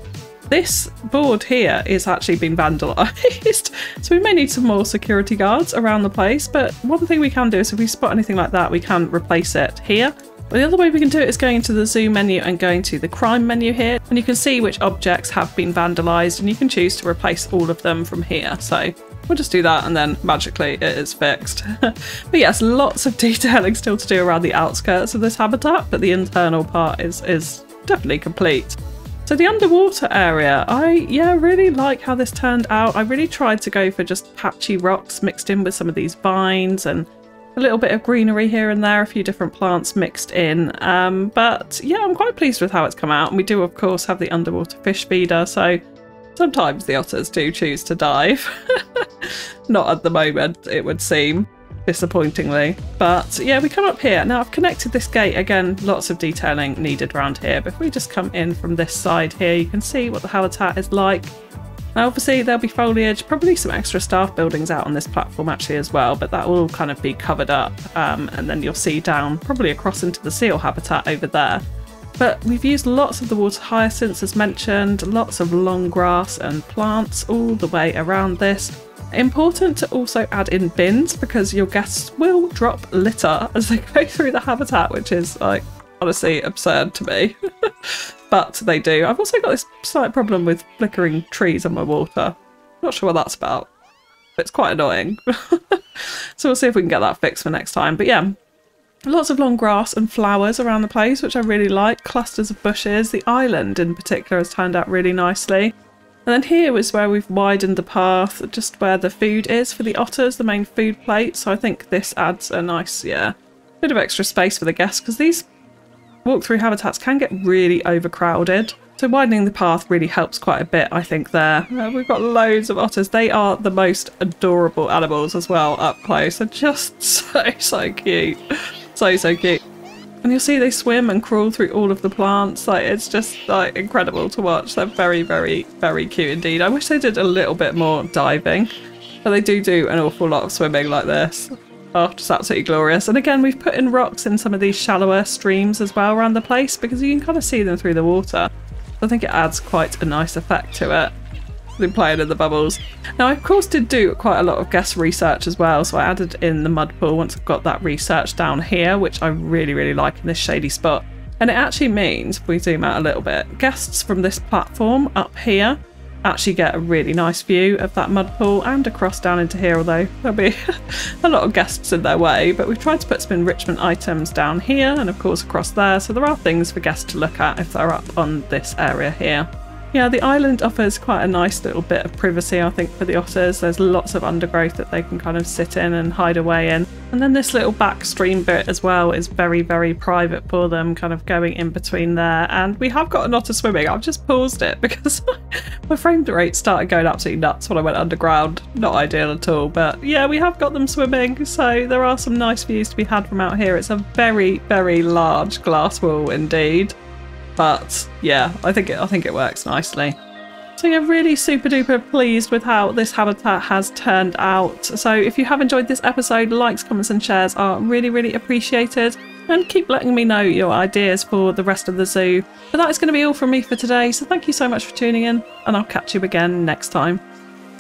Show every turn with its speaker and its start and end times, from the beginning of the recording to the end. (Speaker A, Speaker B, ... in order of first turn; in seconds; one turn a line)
Speaker A: 0.5-45.8
Speaker A: 46.4-61.3
Speaker A: 62.0-71.6
Speaker A: 72.2-93.7
Speaker A: 94.4-98.3
Speaker A: 99.0-105.8
Speaker A: 106.3-115.5
Speaker A: 116.2-128.4
Speaker A: 128.9-129.6
Speaker A: 130.2-138.7
Speaker A: 139.2-151.1
Speaker A: 151.8-207.0
Speaker A: 207.6-210.2
Speaker A: 210.8-227.2